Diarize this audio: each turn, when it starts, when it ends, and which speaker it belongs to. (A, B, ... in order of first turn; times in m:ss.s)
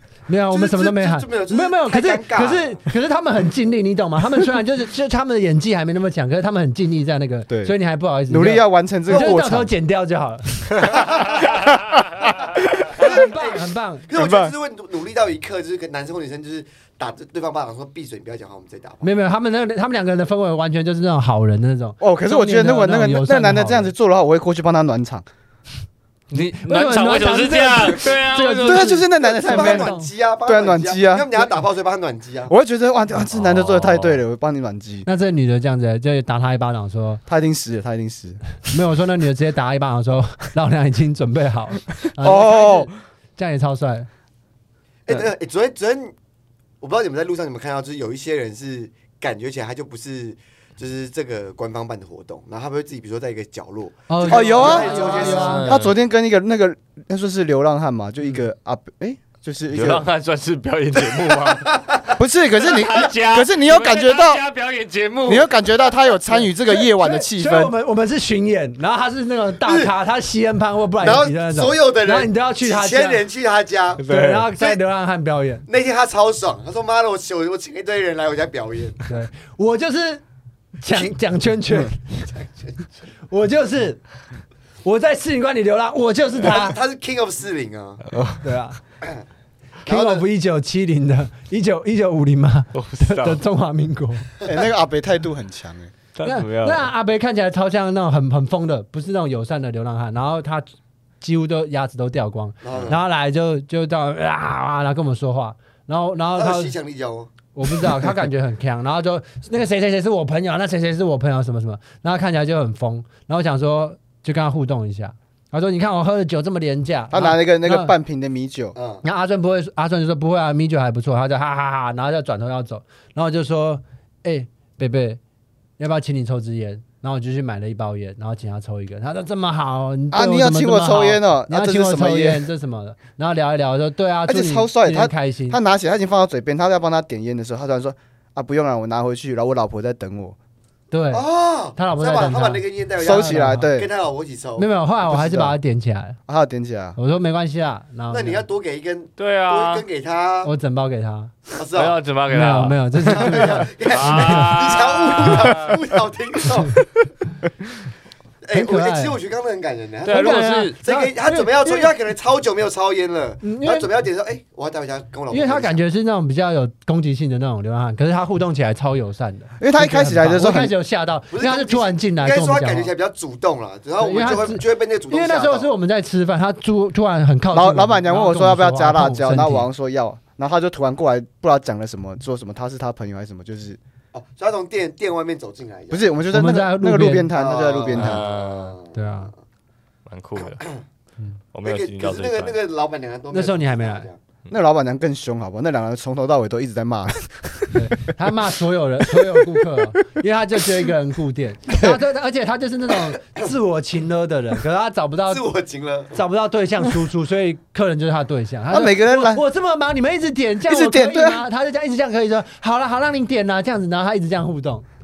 0:00.3-0:11.0 A
0:00.5-0:02.8 B
0:07.5-0:07.7 C
0:08.3-0:09.7 C
0:10.8-0:11.6 B
0:10.9-0:12.7 C
0:12.9-0:19.1 B
0:12.9-0:14.1 A
0:14.1-0:14.5 C
0:19.0-0:23.9 A
0:22.0-0:25.2 C
0:26.3-0:29.0 D
0:26.4-0:30.1 A
0:28.6-0:29.9 C
0:29.2-0:32.5 B
0:30.4-0:31.5 C
0:32.5-0:35.1 C
0:33.3-0:34.2 D
0:35.0-0:37.2 A
0:37.3-0:38.4 C
0:38.7-0:44.1 A
0:42.2-0:42.9 C
0:45.0-0:46.1 B
0:46.8-0:55.8 B
0:54.1-0:55.7 A
0:54.2-1:00.0 C
0:55.4-0:55.9 D
0:59.7-1:01.8 D
1:01.1-1:02.2 B
1:02.2-1:04.4 C
1:02.6-1:05.5 D
1:05.2-1:07.7 C
1:06.6-1:13.2 A
1:09.6-1:09.9 B
1:11.0-1:14.0 B
1:14.0-1:14.5 D
1:14.1-1:15.6 A
1:15.7-1:19.0 B
1:19.1-1:20.2 A
1:20.8-1:22.2 A
1:22.3-1:22.8 B
1:23.3-1:24.0 A
1:24.8-1:26.8 A
1:26.4-1:28.0 B
1:28.4-1:28.8 A
1:29.8-1:30.2 B
1:29.8-1:34.3 A
1:32.7-1:33.4 D
1:34.4-1:35.9 C
1:36.1-1:36.9 D
1:36.2-1:40.7 A
1:41.2-1:46.7 A
1:42.6-1:43.0 B
1:46.3-1:47.3 B
1:47.5-1:57.9 A
1:57.1-1:58.7 C
1:58.7-1:59.0 B
1:59.0-2:05.2 A
2:05.8-2:15.6 A
2:10.1-2:12.4 C
2:14.3-2:20.4 C
2:20.9-2:23.7 A
2:21.1-2:24.7 B
2:23.0-2:23.9 C
2:24.6-2:26.2 A
2:25.1-2:25.6 C
2:26.3-2:27.0 C
2:27.0-2:28.4 A
2:28.1-2:30.5 B
2:29.2-2:29.8 D
2:30.4-2:31.3 A
2:31.5-2:32.0 B
2:31.7-2:35.8 D
2:32.3-2:34.5 A
2:33.0-2:36.8 B
2:38.4-2:45.8 B
2:38.5-2:39.2 A
2:40.0-2:40.8 D
2:40.1-2:41.9 A
2:43.4-2:43.9 A
2:45.3-2:52.9 A
2:49.6-2:50.7 C
2:51.3-2:55.7 B
2:54.0-2:59.7 A
2:57.5-3:03.8 C
3:04.1-3:06.1 B
3:05.9-3:08.2 C
3:06.3-3:07.3 A
3:07.3-3:09.3 B
3:07.9-3:08.8 D
3:08.9-3:09.3 A
3:10.0-3:10.6 D
3:10.4-3:10.8 B
3:11.5-3:12.6 D
3:11.6-3:14.2 B
3:13.3-3:14.1 A
3:14.5-3:17.8 C
3:17.7-3:25.4 A
3:21.7-3:22.0 C
3:25.3-3:26.2 B
3:26.1-3:34.8 A
3:28.7-3:29.4 C
3:30.7-3:31.4 C